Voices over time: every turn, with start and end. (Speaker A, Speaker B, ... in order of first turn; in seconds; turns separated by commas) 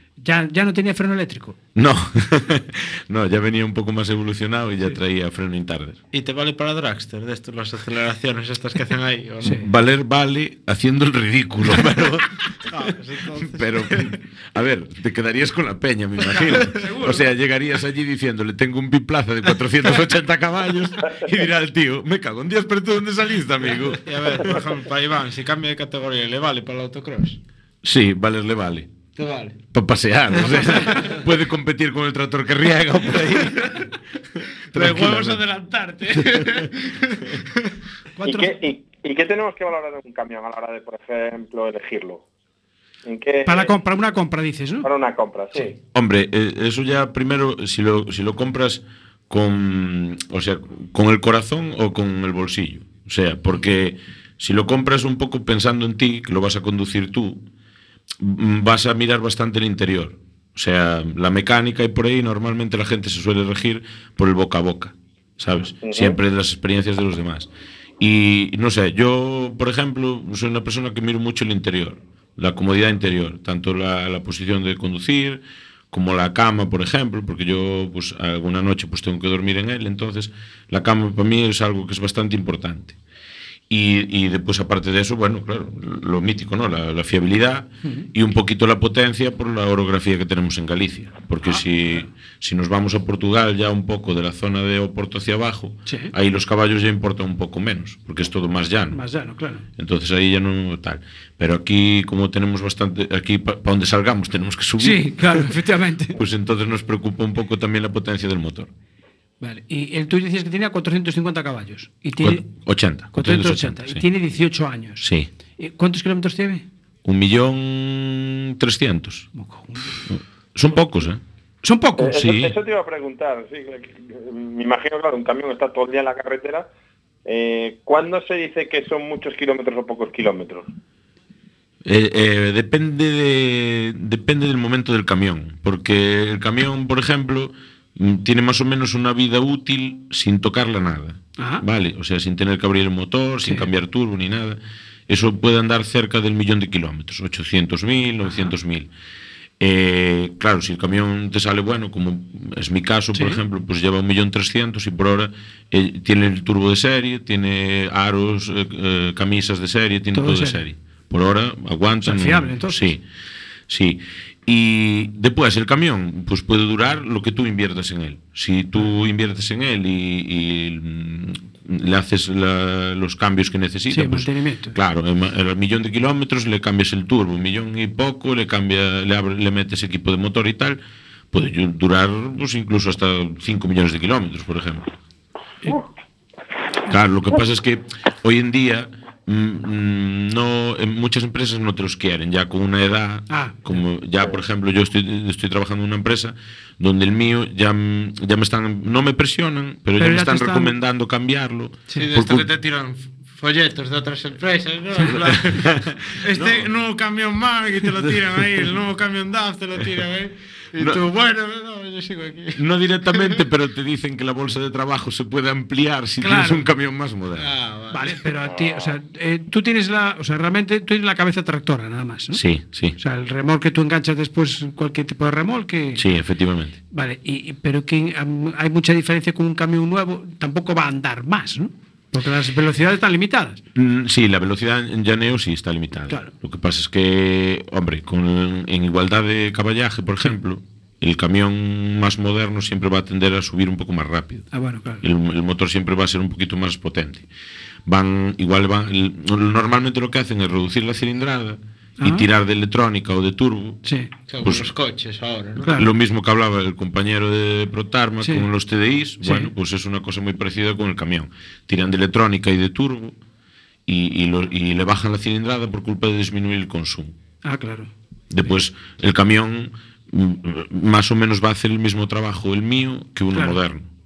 Speaker A: 0.2-1.6, Speaker B: 1.8-6.0, Speaker C: 6.1-9.6, Speaker B: 9.6-12.4, Speaker C: 12.7-14.2, Speaker B: 13.4-24.1, Speaker A: 16.6-17.2, Speaker C: 23.8-27.4, Speaker B: 27.8-28.9, Speaker C: 29.2-29.6, Speaker B: 29.7-33.8, Speaker A: 30.5-31.1, Speaker C: 30.6-31.2, Speaker C: 34.7-37.3, Speaker A: 38.2-38.6, Speaker D: 38.2-42.2, Speaker D: 43.0-43.8, Speaker A: 43.5-44.9, Speaker D: 44.8-45.8, Speaker B: 45.9-57.4, Speaker B: 58.2-67.5, Speaker D: 65.8-66.2, Speaker B: 68.0-83.0, Speaker B: 83.7-99.0, Speaker A: 91.4-92.0, Speaker A: 95.9-96.1, Speaker A: 98.9-99.7, Speaker B: 99.8-105.5, Speaker A: 104.8-106.2, Speaker B: 106.2-108.7, Speaker A: 109.4-112.5, Speaker B: 112.2-114.1, Speaker A: 113.1-115.1, Speaker B: 115.0-115.3, Speaker A: 115.6-116.7, Speaker B: 117.0-119.3, Speaker A: 119.3-120.0, Speaker B: 120.1-121.2, Speaker A: 121.6-122.2, Speaker D: 122.0-126.7, Speaker B: 122.1-122.5, Speaker D: 127.3-130.7, Speaker B: 131.8-144.6, Speaker A: 141.4-141.6, Speaker A: 143.4-143.7, Speaker B: 145.1-148.9, Speaker A: 148.2-148.5, Speaker B: 149.6-163.0, Speaker A: 153.1-153.4, Speaker A: 160.1-160.6, Speaker A: 162.0-162.9, Speaker B: 163.7-180.8, Speaker A: 173.9-174.8, Speaker B: 181.3-184.8, Speaker B: 186.9-202.5, Speaker A: 193.3-193.6, Speaker A: 200.0-200.8, Speaker C: 201.9-213.4, Speaker B: 205.2-206.7, Speaker B: 210.8-211.0, Speaker B: 212.6-217.5, Speaker A: 216.2-216.7, Speaker C: 217.3-218.2, Speaker A: 217.9-222.4, Speaker B: 222.3-222.9, Speaker A: 223.0-226.0, Speaker B: 226.0-226.8, Speaker A: 226.9-233.6, Speaker B: 233.8-244.5, Speaker A: 244.5-245.0, Speaker B: 245.0-247.3, Speaker B: 247.9-253.8, Speaker A: 252.0-252.3, Speaker A: 253.8-254.1, Speaker C: 254.3-255.7, Speaker B: 254.4-254.7, Speaker A: 255.6-255.9, Speaker B: 255.7-263.2, Speaker A: 258.2-258.5, Speaker A: 259.2-259.5, Speaker B: 263.9-267.1, Speaker A: 267.4-267.9, Speaker B: 268.3-273.9, Speaker A: 273.3-273.6